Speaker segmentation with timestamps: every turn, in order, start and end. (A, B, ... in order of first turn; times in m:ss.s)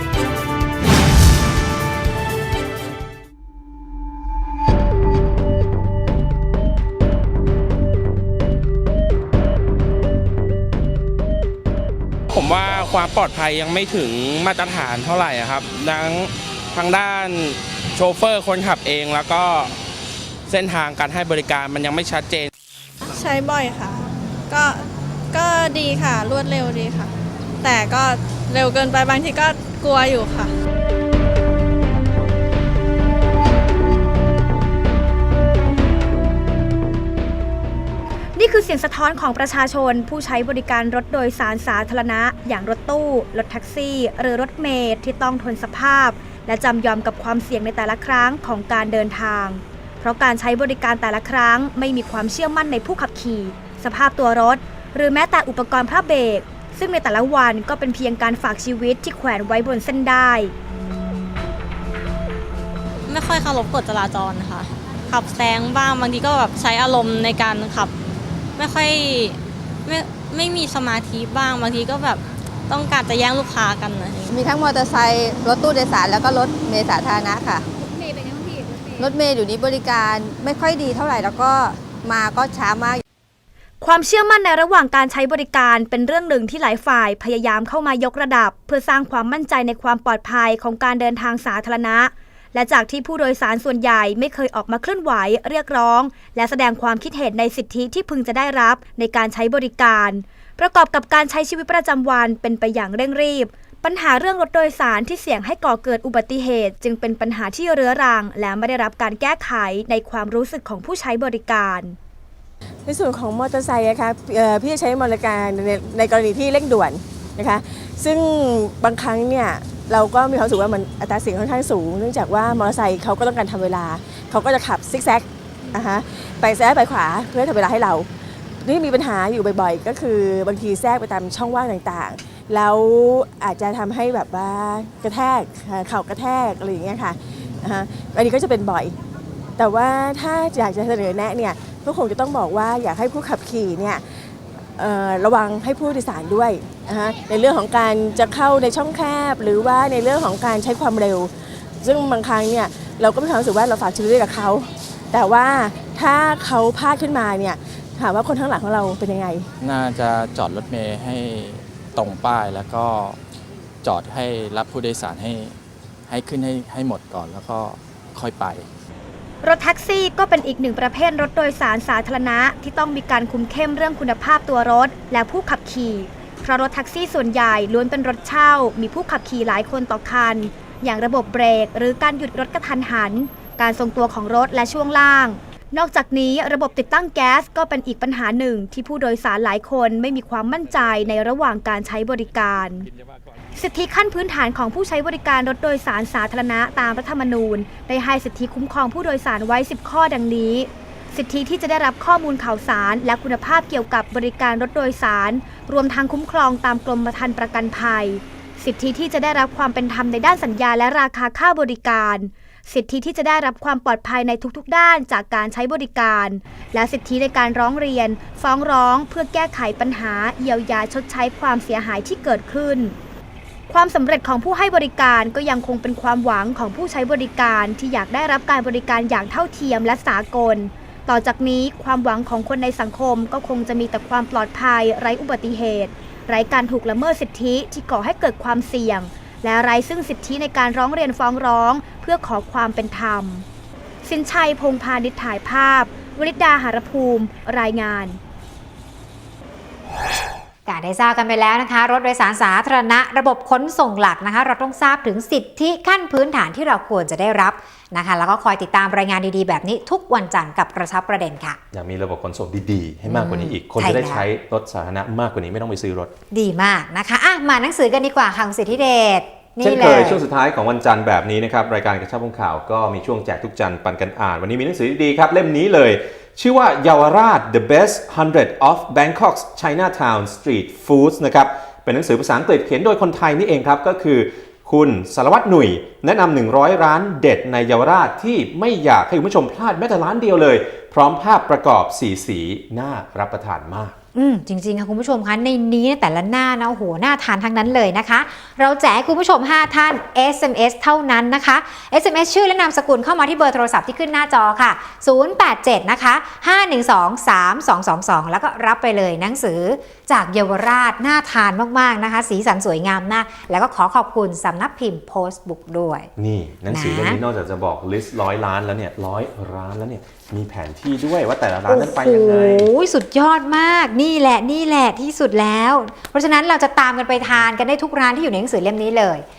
0:12.3-0:19.7 A
0:20.5-0:22.5 A
0:23.1-0:30.5 B
0:38.4-1:00.5 C
1:03.1-1:07.9 D
1:08.6-1:14.3 D
1:14.3-1:17.6 E
1:19.0-1:23.0 E
1:23.8-1:52.0 C
1:52.8-2:08.1 F
2:08.6-2:19.0 F
2:19.6-2:24.0 F
2:24.8-2:39.5 F
2:39.6-2:43.2 G
2:43.8-2:48.7 G
2:49.4-3:12.8 C
3:13.5-3:43.0 C
3:43.7-4:03.4 C
4:04.0-4:08.2 C
4:10.6-4:21.6 H
4:21.7-4:26.1 I
4:23.0-4:24.3 H
4:26.3-4:30.2 H
4:29.6-4:53.9 I
4:54.1-5:16.1 H
5:16.2-5:22.7 I
5:16.7-5:17.2 H
5:21.7-5:29.2 H